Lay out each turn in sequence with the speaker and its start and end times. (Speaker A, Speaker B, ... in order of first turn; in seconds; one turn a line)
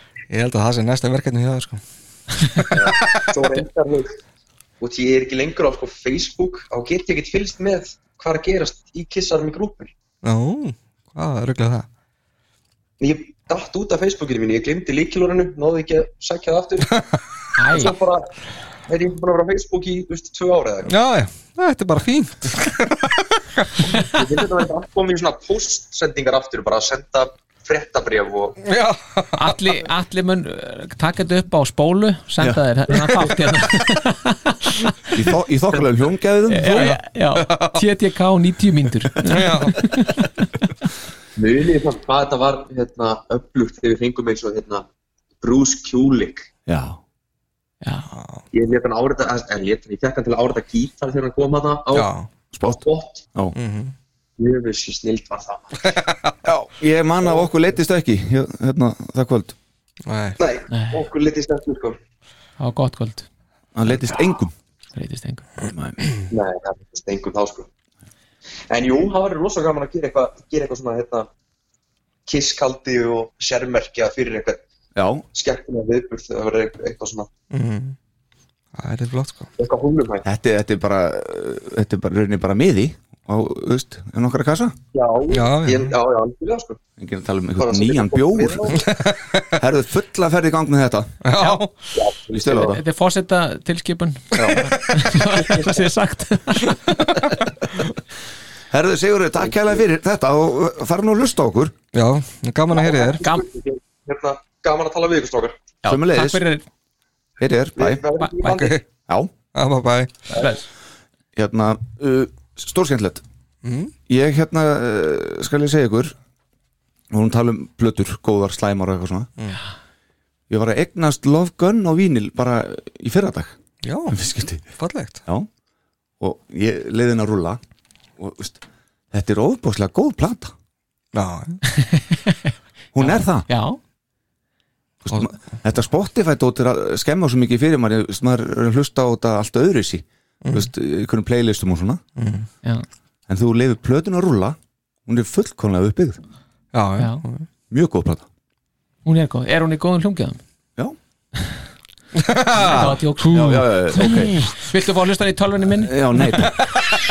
Speaker A: 0.3-1.8
Speaker A: 2.5-3.5
Speaker B: 2.7-4.2
Speaker B: 4.8-9.9
Speaker A: 10.2-11.9
Speaker B: 13.0-16.9
Speaker C: 17.6-18.0
Speaker B: 17.7-18.2
Speaker B: 18.9-20.9
Speaker A: 20.9-23.8
Speaker B: 24.1-28.6
Speaker A: 28.6-29.4
Speaker C: 29.4-34.7
Speaker D: 35.1-37.0
Speaker C: 36.5-40.5
Speaker A: 36.7-37.8
Speaker A: 39.2-39.8
Speaker D: 39.2-39.6
Speaker B: 41.4-44.9
Speaker B: 45.4-46.5
Speaker D: 46.7-47.0
Speaker C: 47.8-48.1
Speaker A: 48.1-48.4
Speaker B: 48.5-52.1
Speaker A: 51.9-52.3
Speaker D: 52.5-53.6
Speaker B: 52.6-53.3
Speaker A: 53.5-53.9
Speaker B: 54.4-55.8
Speaker D: 56.4-59.6
Speaker B: 57.2-57.5
Speaker A: 60.1-60.4
Speaker B: 60.4-62.0
Speaker C: 60.7-61.1
Speaker C: 62.6-63.3
Speaker D: 63.8-64.5
Speaker C: 64.9-65.5
Speaker D: 65.6-66.0
Speaker B: 66.3-67.7
Speaker B: 68.7-71.3
Speaker B: 72.3-74.6
Speaker D: 75.0-75.2
Speaker B: 75.3-77.3
Speaker A: 77.5-78.0
Speaker A: 78.8-79.5
Speaker B: 79.6-80.3
Speaker D: 80.2-84.8
Speaker B: 84.9-86.8
Speaker A: 85.3-86.0
Speaker D: 87.0-88.9
Speaker B: 87.6-88.9
Speaker A: 88.9-89.4
Speaker D: 89.5-91.1
Speaker A: 91.2-91.7
Speaker B: 92.0-92.8
Speaker D: 92.4-92.8
Speaker C: 92.6-97.0
Speaker D: 94.4-94.6
Speaker A: 94.4-95.2
Speaker D: 98.7-101.7
Speaker B: 99.4-99.8
Speaker A: 101.9-103.2
Speaker B: 102.7-105.6
Speaker C: 103.2-103.5
Speaker C: 105.8-106.6
Speaker D: 105.9-106.4
Speaker D: 107.4-108.0
Speaker B: 107.8-108.8
Speaker C: 108.2-108.7
Speaker A: 108.5-108.8
Speaker A: 109.5-110.1
Speaker D: 111.4-113.2
Speaker A: 113.6-113.9
Speaker D: 114.1-116.2
Speaker D: 117.1-119.3
Speaker D: 120.5-123.6
Speaker A: 123.8-125.2
Speaker D: 124.1-124.6
Speaker D: 126.2-127.6
Speaker D: 128.2-130.5
Speaker A: 131.1-131.6
Speaker C: 131.8-133.8
Speaker D: 132.9-133.5
Speaker D: 135.1-142.0
Speaker A: 140.4-140.7
Speaker A: 142.2-142.5
Speaker D: 143.3-146.2
Speaker A: 146.7-147.5
Speaker C: 147.0-147.2
Speaker D: 147.7-148.3
Speaker C: 149.1-150.4
Speaker A: 152.2-154.3
Speaker D: 152.6-154.4
Speaker C: 152.7-156.0
Speaker D: 155.8-156.6